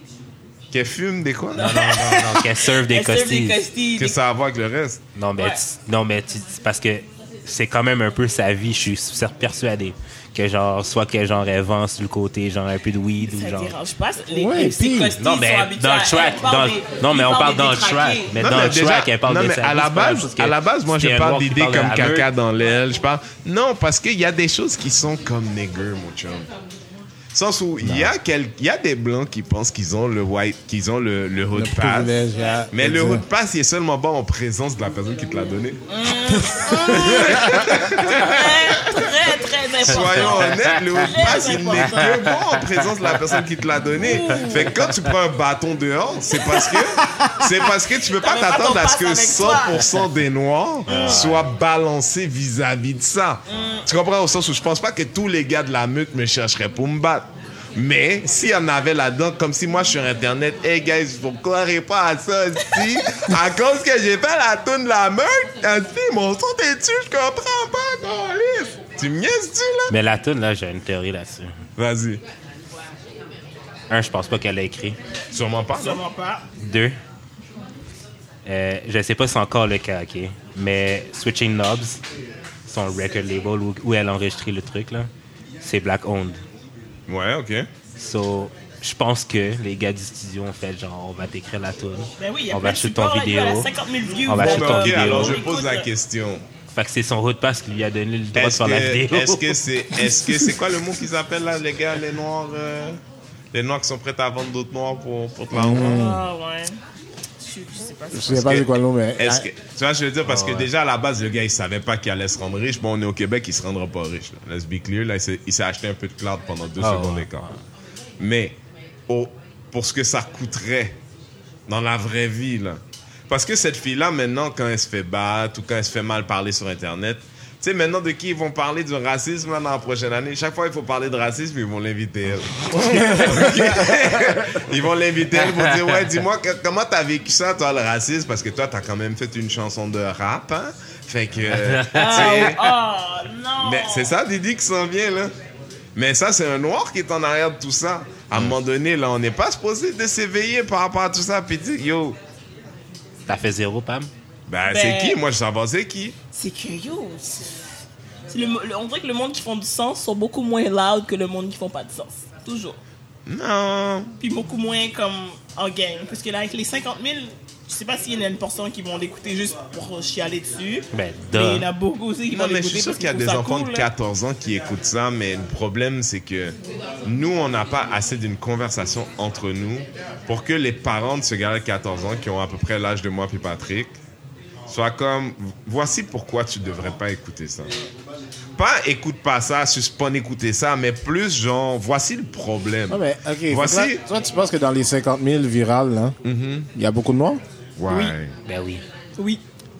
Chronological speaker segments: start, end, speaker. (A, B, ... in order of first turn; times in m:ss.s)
0:00.7-0:01.8 A
0:01.5-0:04.2 B
0:01.6-0:03.6 C
0:04.0-0:05.0 A
0:05.2-0:13.7 C
0:13.2-0:18.4 B
0:14.3-0:15.1 D
0:15.2-0:22.3 C
0:18.4-0:26.5 A
0:27.3-0:32.2 A
0:31.5-0:33.2 D
0:32.7-0:35.8 A
0:35.9-0:37.4 B
0:36.6-0:39.0 A
0:36.9-0:38.1 D
0:38.1-0:42.2 B
0:39.8-1:09.9 A
0:40.2-0:40.9 C
0:42.0-0:42.8 C
0:44.0-0:44.7 B
0:46.4-0:47.5 B
0:48.2-0:49.9 B
0:50.9-0:51.3 B
0:50.9-0:51.4 C
0:53.5-0:53.8 B
1:09.9-1:11.5 C
1:11.8-1:12.2 A
1:13.9-1:15.0 C
1:15.3-1:16.0 A
1:15.7-1:16.4 B
1:16.6-1:17.0 C
1:18.4-1:22.0 C
1:22.6-1:25.1 C
1:25.6-1:26.4 C
1:27.1-1:27.7 A
1:28.0-1:33.7 C
1:32.2-1:35.9 B
1:34.3-1:35.4 C
1:34.3-1:36.4 A
1:36.7-1:39.6 C
1:38.3-1:43.0 A
1:43.5-1:46.1 A
1:45.5-1:46.2 D
1:45.8-1:46.8 B
1:47.4-1:48.6 B
1:48.1-1:49.4 D
1:48.3-1:57.5 A
1:50.2-1:50.7 C
1:56.8-1:57.5 C
1:58.2-1:58.6 A
1:59.1-2:01.0 A
2:01.7-2:22.6 A
2:12.7-2:14.4 D
2:15.4-2:16.0 C
2:21.4-2:22.5 C
2:21.9-2:24.1 B
2:23.6-2:25.3 A
2:25.9-2:32.2 A
2:33.3-2:34.1 C
2:34.5-2:36.1 A
2:34.6-2:35.2 B
2:36.3-2:37.5 B
2:38.3-2:42.8 B
2:43.2-2:44.1 A
2:44.2-2:53.9 B
2:50.9-2:51.6 C
2:52.3-3:04.0 A
3:04.7-3:07.7 A
3:08.6-3:14.0 A
3:12.9-3:16.2 D
3:16.2-3:16.7 A
3:16.7-3:17.4 D
3:17.8-3:18.4 A
3:17.9-3:18.1 B
3:18.4-3:18.8 C